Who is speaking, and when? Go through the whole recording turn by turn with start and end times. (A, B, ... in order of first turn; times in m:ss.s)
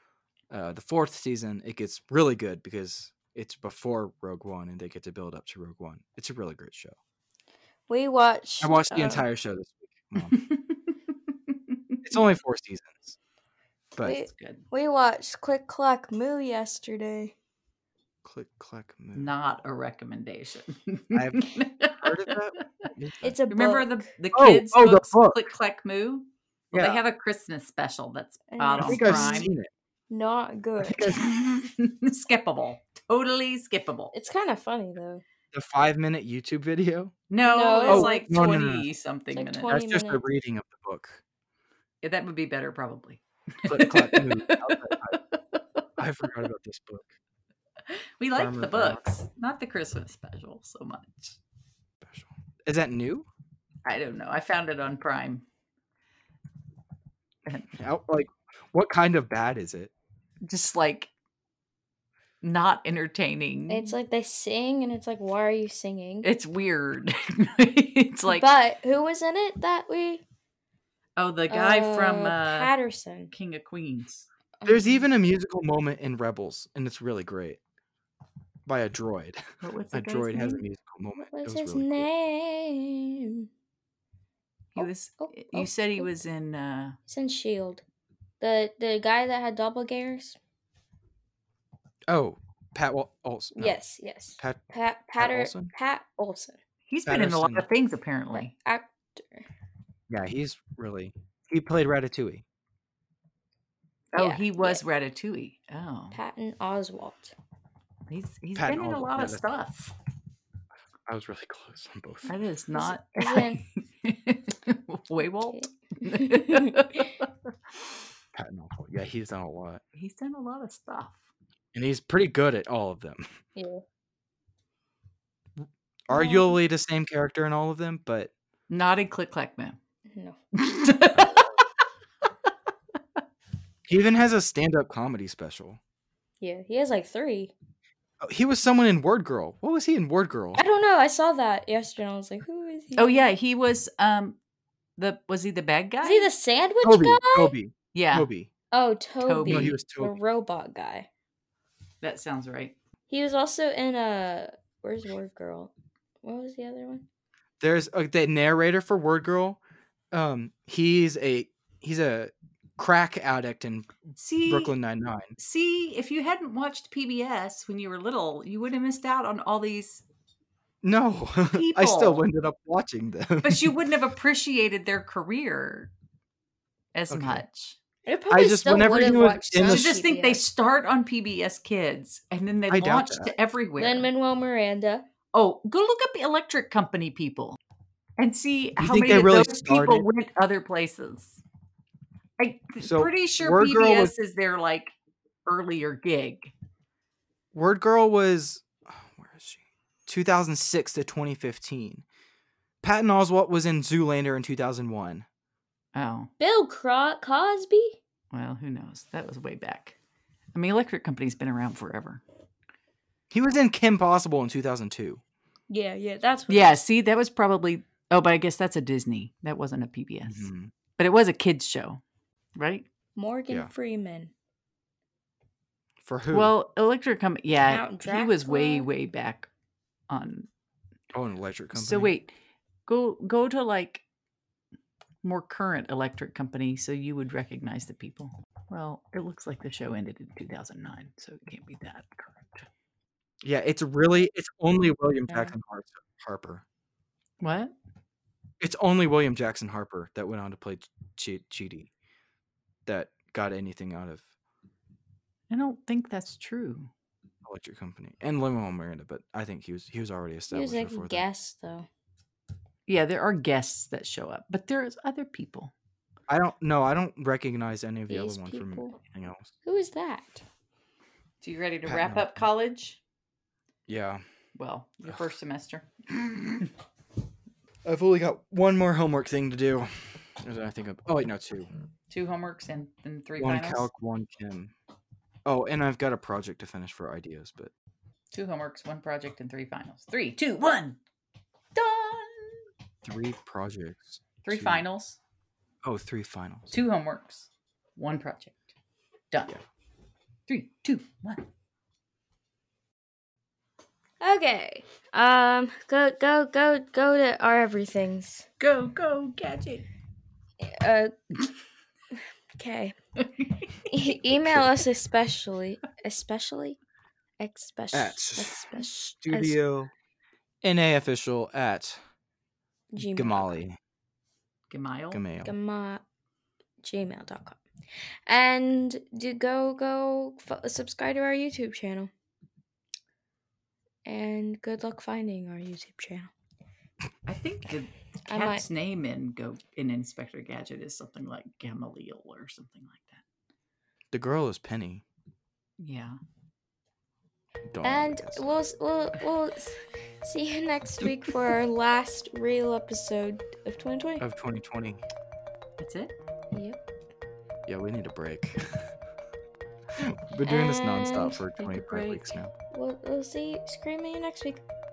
0:00.5-0:07.0 A
0:07.9-0:09.3 B
0:08.6-0:10.4 A
0:10.2-0:10.9 C
0:12.0-0:13.2 A
0:14.0-0:17.3 B
0:14.1-0:14.6 C
0:18.2-0:19.3 A
0:19.2-0:22.9 C
0:21.1-0:23.4 A
0:23.2-0:24.1 B
0:23.5-0:29.5 C
0:24.3-0:25.4 A
0:26.7-0:27.0 A
0:28.5-0:29.5 B
0:28.8-0:29.7 A
0:30.1-0:31.1 B
0:30.8-0:31.2 A
0:31.0-0:34.1 C
0:34.1-0:35.2 B
0:35.5-0:37.2 A
0:37.3-0:39.7 C
0:37.4-0:38.6 B
0:37.9-0:38.9 A
0:39.3-0:40.2 B
0:39.7-0:41.2 A
0:42.0-0:45.8 C
0:43.7-0:45.2 A
0:46.0-0:47.2 A
0:47.9-0:51.4 C
0:48.3-0:49.0 A
0:52.0-0:53.3 A
0:53.8-0:55.4 C
0:57.7-0:59.9 A
1:00.4-1:01.1 C
1:02.4-1:04.0 C
1:03.7-1:06.3 B
1:06.2-1:08.5 C
1:08.3-1:10.2 B
1:11.2-1:12.7 C
1:11.5-1:13.3 B
1:13.3-1:14.3 C
1:14.6-1:15.0 B
1:14.7-1:17.6 A
1:18.7-1:22.1 A
1:19.6-1:20.6 C
1:21.2-1:23.5 B
1:24.8-1:27.0 C
1:24.8-1:26.1 B
1:27.1-1:27.8 B
1:28.4-1:30.4 B
1:32.1-1:33.8 A
1:33.6-1:36.6 B
1:35.2-1:35.7 A
1:36.9-1:38.5 C
1:37.1-1:37.7 A
1:38.3-1:39.5 B
1:40.1-1:42.4 A
1:44.1-1:46.2 C
1:44.2-1:44.8 B
1:46.1-1:47.4 B
1:48.1-1:50.0 C
1:48.6-1:49.4 A
1:51.1-1:52.4 A
1:52.3-1:57.3 C
1:52.7-1:53.6 B
1:55.2-1:57.1 B
1:58.4-1:59.8 A
2:00.0-2:01.2 C
2:01.7-2:03.2 A
2:03.6-2:03.8 B
2:05.6-2:08.3 A
2:06.1-2:06.6 B
2:08.7-2:09.8 C
2:10.1-2:10.4 B
2:10.5-2:11.6 C
2:11.2-2:11.4 A
2:13.9-2:15.8 A
2:16.4-2:17.5 B
2:18.2-2:20.6 A
2:20.6-2:23.2 B
2:23.0-2:24.4 C
2:25.0-2:26.3 C
2:26.0-2:27.5 B
2:26.8-2:28.5 A
2:27.9-2:28.3 C
2:28.7-2:31.1 B
2:29.2-2:29.8 C
2:29.4-2:30.2 A
2:32.0-2:32.8 C
2:33.1-2:35.7 B
2:36.2-2:37.1 B
2:37.6-2:39.6 A
2:40.1-2:43.9 A
2:44.2-2:44.7 C
2:44.5-2:45.4 A
2:45.4-2:50.0 C
2:50.8-2:53.7 A
2:51.5-2:52.2 C
2:53.4-2:55.9 C
2:56.9-2:57.8 C
2:57.1-2:57.4 A
2:58.1-3:00.4 B
2:58.3-2:59.9 A
2:59.6-3:04.1 C
3:02.7-3:03.3 A
3:03.8-3:05.0 B
3:05.3-3:07.6 C
3:08.2-3:11.4 C
3:08.8-3:10.0 A
3:12.4-3:15.0 C
3:12.8-3:14.1 A
3:15.5-3:16.5 C
3:17.5-3:22.0 A
3:22.8-3:25.2 A
3:25.9-3:26.3 C
3:26.4-3:28.0 B
3:28.3-3:30.0 C
3:30.6-3:32.2 C
3:33.3-3:35.2 A
3:35.7-3:36.8 B
3:36.5-3:42.0 C
3:40.3-3:40.7 A
3:42.6-3:42.9 C
3:43.2-3:44.3 B
3:46.0-3:46.5 A
3:46.3-3:49.5 C
3:47.7-3:48.9 B
3:50.1-3:50.5 C
3:51.1-3:52.1 A
3:51.7-3:52.3 C
3:52.9-3:54.0 C
3:55.2-4:02.7 C
4:03.4-4:06.6 A
4:07.4-4:07.8 C
4:08.6-4:11.9 A
4:12.9-4:14.3 A
4:15.5-4:16.9 C
4:17.4-4:21.2 A
4:20.5-4:21.9 B
4:22.9-4:25.7 C
4:26.3-4:29.5 A
4:28.1-4:29.0 B
4:29.6-4:30.4 B
4:31.4-4:33.0 C
4:31.8-4:32.4 A
4:33.9-4:34.2 A
4:34.6-4:36.6 C
4:37.8-4:41.7 A
4:42.1-4:43.9 C
4:43.4-4:44.7 A
4:45.4-4:47.7 A
4:48.3-4:51.0 C
4:51.8-4:52.6 C
4:53.0-4:54.9 A
4:54.4-4:55.2 C
4:55.8-4:56.7 A
4:56.7-4:58.6 C
4:59.3-4:59.6 C
5:00.5-5:01.5 C
5:04.2-5:08.5 B
5:08.6-5:09.9 C
5:10.6-5:11.1 B
5:12.6-5:13.0 B
5:13.2-5:13.7 C
5:13.9-5:16.8 B
5:17.4-5:19.6 B
5:17.9-5:19.9 A
5:20.6-5:22.0 A
5:22.9-5:23.6 B
5:23.0-5:23.8 A
5:24.7-5:25.2 C
5:25.1-5:25.5 A
5:25.4-5:26.0 B
5:26.8-5:27.6 B
5:28.3-5:32.1 B
5:34.0-5:36.3 B
5:37.3-5:43.2 C
5:38.3-5:38.7 B
5:44.1-5:45.0 A
5:45.8-5:46.2 C
5:47.7-5:48.4 A
5:47.8-5:54.2 B
5:54.2-5:55.0 A
5:55.8-5:56.1 C
5:56.5-5:56.8 B
5:57.7-5:58.8 A
5:59.9-6:02.5 A
6:00.5-6:01.4 B
6:01.6-6:02.4 C
6:02.7-6:04.6 B